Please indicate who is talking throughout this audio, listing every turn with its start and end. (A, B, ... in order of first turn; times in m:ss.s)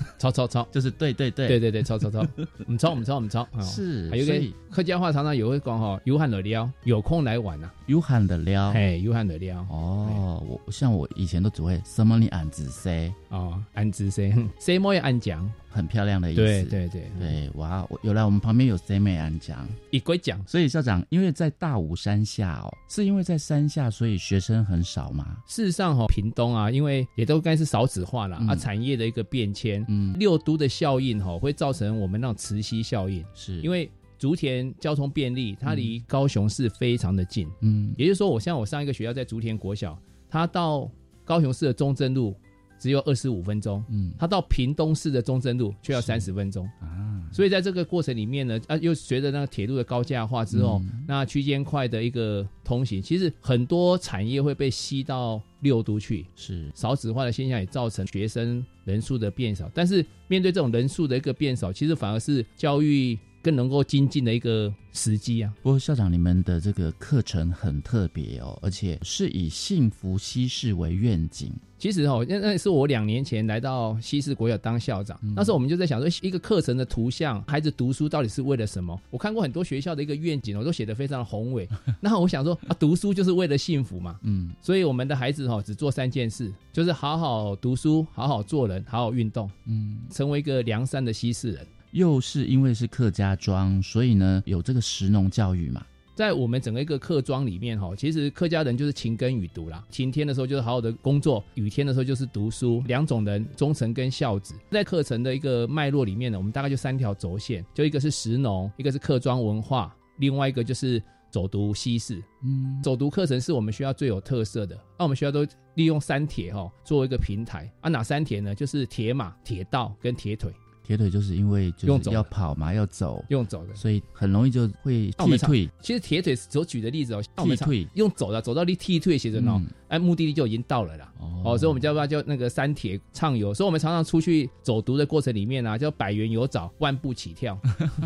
0:00.2-0:00.7 A
0:00.7-0:01.6 B
0:01.5-0:07.7 A
0:03.6-0:04.6 B
0:07.8-0:08.8 B
0:08.7-0:10.2 A
0:09.7-0:13.2 B
0:13.3-0:15.6 A
0:15.7-0:19.8 B
0:16.3-0:17.3 A
0:19.9-0:20.5 A
0:20.5-0:25.4 B
0:25.5-0:46.7 A
0:28.4-0:28.7 B
0:29.9-0:30.2 B
0:33.3-0:33.7 B
0:37.6-0:38.0 B
0:43.9-0:44.2 B
0:45.9-0:46.2 B
0:46.8-0:47.4 B
0:47.3-1:05.6 A
0:50.5-0:51.1 B
0:56.4-0:56.7 B
1:05.6-1:11.6 B
1:11.8-1:29.5 A
1:15.2-1:15.5 B
1:24.2-1:24.6 B
1:29.6-1:30.1 B
1:30.1-1:31.7 A
1:31.9-1:35.9 B
1:36.2-1:52.3 A
1:52.4-1:52.8 B
1:52.8-2:00.6 A
2:00.8-2:05.7 B
2:01.8-2:02.3 A
2:03.3-2:03.8 A
2:05.2-2:17.6 A
2:07.4-2:07.9 B
2:09.4-2:09.8 B
2:11.2-2:11.8 B